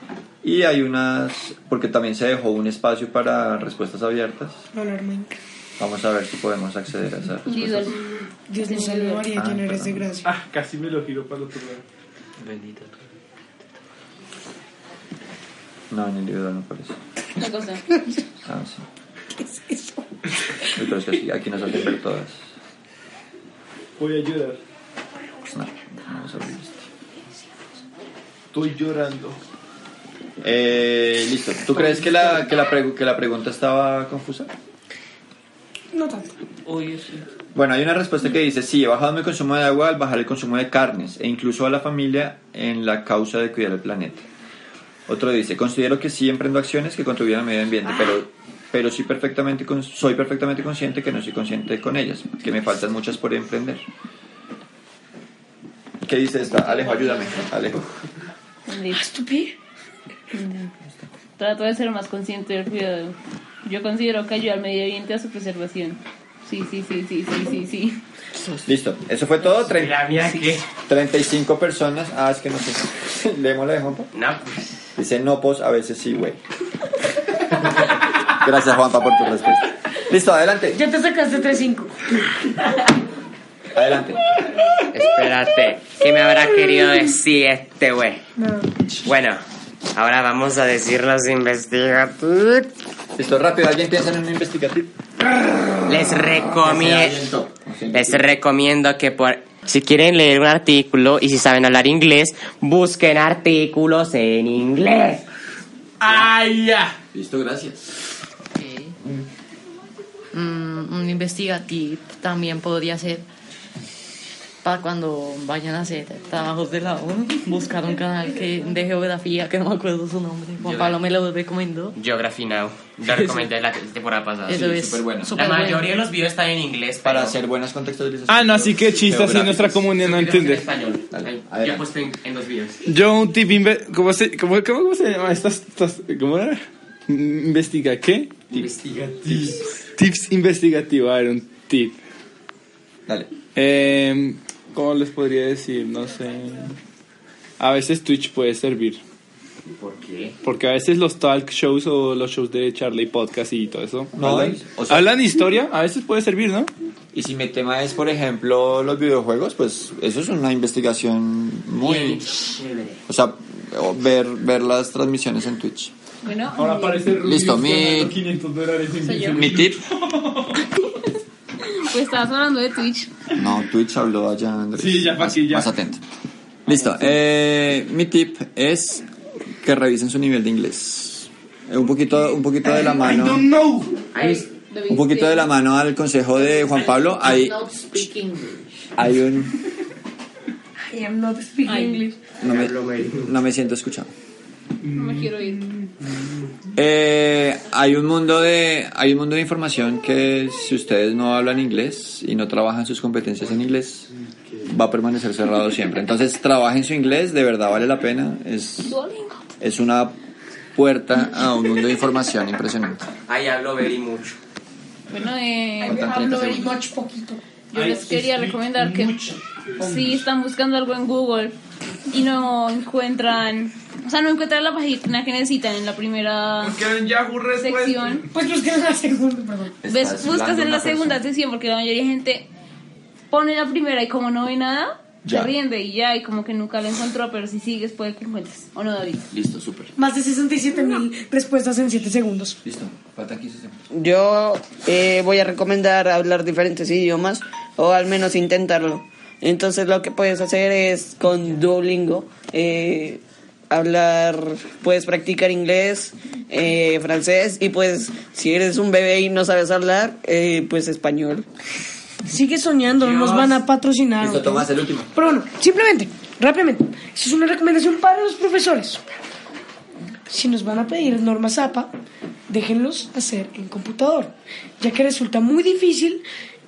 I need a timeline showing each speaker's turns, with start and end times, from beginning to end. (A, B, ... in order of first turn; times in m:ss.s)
0:00.4-0:04.7 A
0:04.7-0:05.4 B
0:05.8-0:08.0 A
0:07.4-0:08.0 C
0:08.5-0:10.3 B
0:08.6-0:09.2 C
0:09.3-0:10.0 A
0:10.2-0:11.8 D
0:15.9-0:17.0 A
0:17.4-0:17.8 C
0:18.4-0:18.8 A
0:19.4-0:20.0 B
0:20.7-0:22.4 A
0:24.0-0:24.6 D
0:25.4-0:26.9 A
0:28.5-0:29.4 D
0:30.4-0:34.5 A
0:35.9-0:36.4 B
0:37.5-0:44.2 A
0:45.1-0:53.8 A
0:56.0-0:57.9 A
0:56.5-0:57.4 C
0:58.7-0:59.0 C
0:58.9-0:59.5 B
1:00.3-1:00.6 C
1:01.4-1:08.0 C
1:08.6-1:14.1 A
1:09.4-1:10.6 E
1:14.1-1:14.7 E
1:15.0-1:16.4 A
1:18.2-1:20.8 A
1:20.7-1:22.0 B
1:23.7-1:24.2 A
1:24.9-1:28.2 E
1:28.4-1:28.7 B
1:29.0-1:29.4 E
1:29.9-1:32.7 E
1:33.2-1:34.9 A
1:35.8-1:37.3 E
1:36.1-1:38.4 A
1:37.9-1:45.2 E
1:46.0-1:46.9 D
1:47.1-1:47.8 A
1:48.5-1:49.0 F
1:50.3-1:53.2 F
1:54.6-2:02.0 F
2:00.6-2:01.0 E
2:02.0-2:07.3 E
2:03.1-2:03.4 D
2:04.5-2:05.9 F
2:04.5-2:05.4 A
2:07.0-2:09.9 A
2:08.3-2:10.7 D
2:10.0-2:12.8 E
2:11.1-2:11.8 A
2:12.8-2:18.6 D
2:18.5-2:19.6 E
2:20.0-2:22.0 D
2:23.1-2:23.3 A
2:23.6-2:26.8 D
2:27.6-2:29.0 D
2:29.7-2:30.4 E
2:30.4-2:36.7 D
2:34.2-2:35.1 A
2:37.1-2:42.2 A
2:41.8-2:43.0 E
2:43.1-2:45.9 A
2:46.2-2:47.2 C
2:46.5-2:50.6 D
2:47.2-2:48.2 A
2:49.0-2:49.4 C
2:49.3-2:49.8 A
2:51.6-2:53.1 C
2:53.3-2:56.0 A
2:54.8-2:55.7 D
2:56.6-2:59.0 A
2:59.6-3:03.4 A
3:02.7-3:04.0 D
3:04.1-3:04.5 E
3:04.1-3:05.5 C
3:04.9-3:07.7 A
3:07.2-3:08.8 F
3:09.0-3:09.6 A
3:10.9-3:12.2 B
3:11.6-3:12.0 C
3:12.4-3:14.1 A
3:12.4-3:13.3 E
3:14.8-3:15.3 D
3:14.9-3:15.6 C
3:16.8-3:24.1 A
3:24.6-3:29.0 A
3:28.8-3:29.4 C
3:29.6-3:30.2 A
3:30.7-3:33.1 A
3:33.3-3:34.4 E
3:35.1-3:36.3 C
3:35.8-3:37.4 B
3:35.8-3:36.7 A
3:37.7-3:39.2 C
3:37.7-3:40.2 D
3:39.8-3:41.6 C
3:42.1-3:46.9 C
3:46.6-3:48.3 D
3:47.6-3:48.2 C
3:48.3-3:49.8 B
3:49.8-3:51.2 A
3:49.9-3:52.5 C
3:53.3-3:59.2 C
3:55.2-3:55.5 A
3:59.3-3:59.9 A
4:00.0-4:02.6 B
4:02.6-4:03.8 A
4:03.9-4:21.4 G
4:22.2-4:29.0 B
4:23.0-4:23.5 E
4:24.2-4:25.2 A
4:30.3-4:31.9 B
4:32.5-4:36.2 B